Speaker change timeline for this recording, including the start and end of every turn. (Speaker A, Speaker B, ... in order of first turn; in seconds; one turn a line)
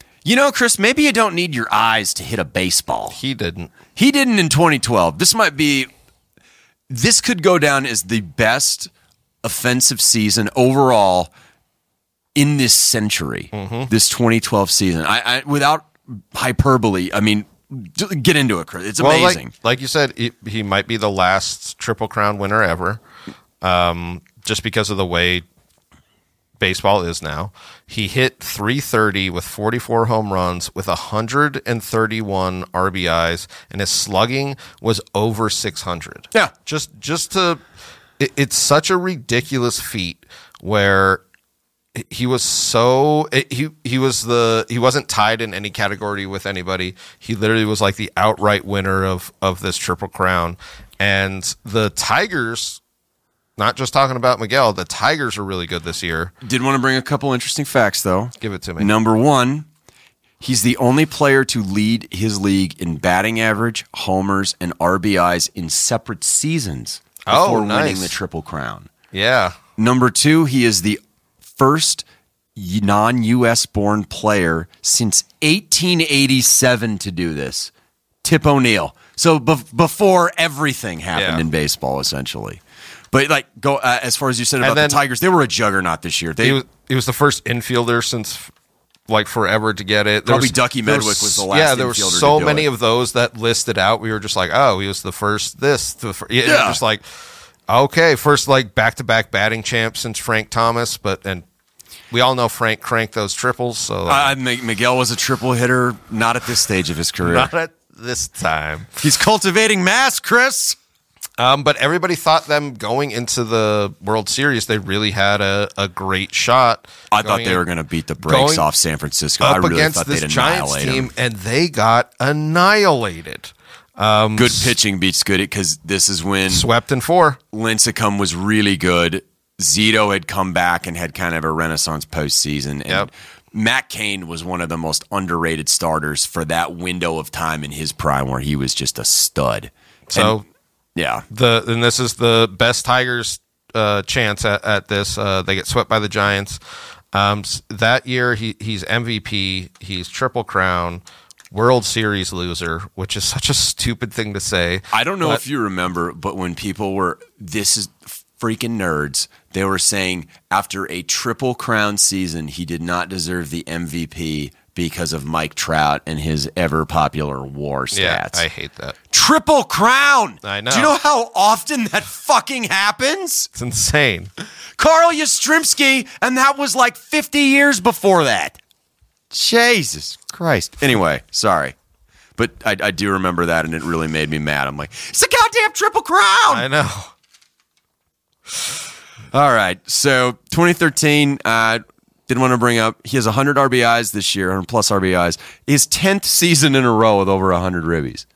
Speaker A: 0.2-3.2
Speaker B: 3.1-3.7
Speaker A: 4.0-5.9
Speaker A: 6.9-8.9
Speaker A: 9.4-11.3
Speaker A: 12.3-19.5
Speaker B: 13.5-13.9
Speaker B: 19.0-23.0
Speaker B: 23.6-25.4
Speaker B: 26.6-37.6
Speaker B: 38.2-41.2
Speaker B: 42.0-52.8
Speaker B: 53.6-56.3
Speaker A: 56.4-59.7
Speaker B: 58.4-58.9
Speaker A: 60.4-68.9
Speaker B: 67.3-68.1
Speaker B: 69.1-69.6
Speaker A: 69.8-71.0
Speaker A: 71.6-72.0
Speaker A: 72.6-77.7
Speaker A: 78.2-82.6
Speaker B: 81.2-81.5
Speaker A: 83.1-86.6
Speaker B: 84.6-85.0
Speaker B: 86.4-88.5
Speaker B: 89.1-97.0
Speaker A: 90.3-92.7
Speaker A: 96.4-96.8
Speaker B: 97.7-101.5
Speaker B: 102.1-104.3
Speaker A: 104.1-107.5
Speaker B: 107.2-109.0
Speaker A: 109.0-110.8
Speaker B: 111.4-117.6
Speaker A: 117.1-121.1
Speaker B: 118.2-118.7
Speaker B: 119.4-124.8
Speaker A: 124.4-126.7
Speaker B: 126.5-127.4
Speaker A: 127.5-140.4
Speaker B: 140.1-140.4
Speaker A: 140.9-141.2
Speaker B: 141.3-146.6
Speaker B: 147.1-155.4
Speaker A: 154.9-168.4
Speaker B: 167.9-169.0
Speaker A: 169.1-173.5
Speaker B: 170.4-170.9
Speaker B: 173.6-174.3
Speaker A: 174.8-178.6
Speaker A: 179.3-181.8
Speaker A: 182.4-186.7
Speaker B: 186.5-187.1
Speaker A: 189.3-198.2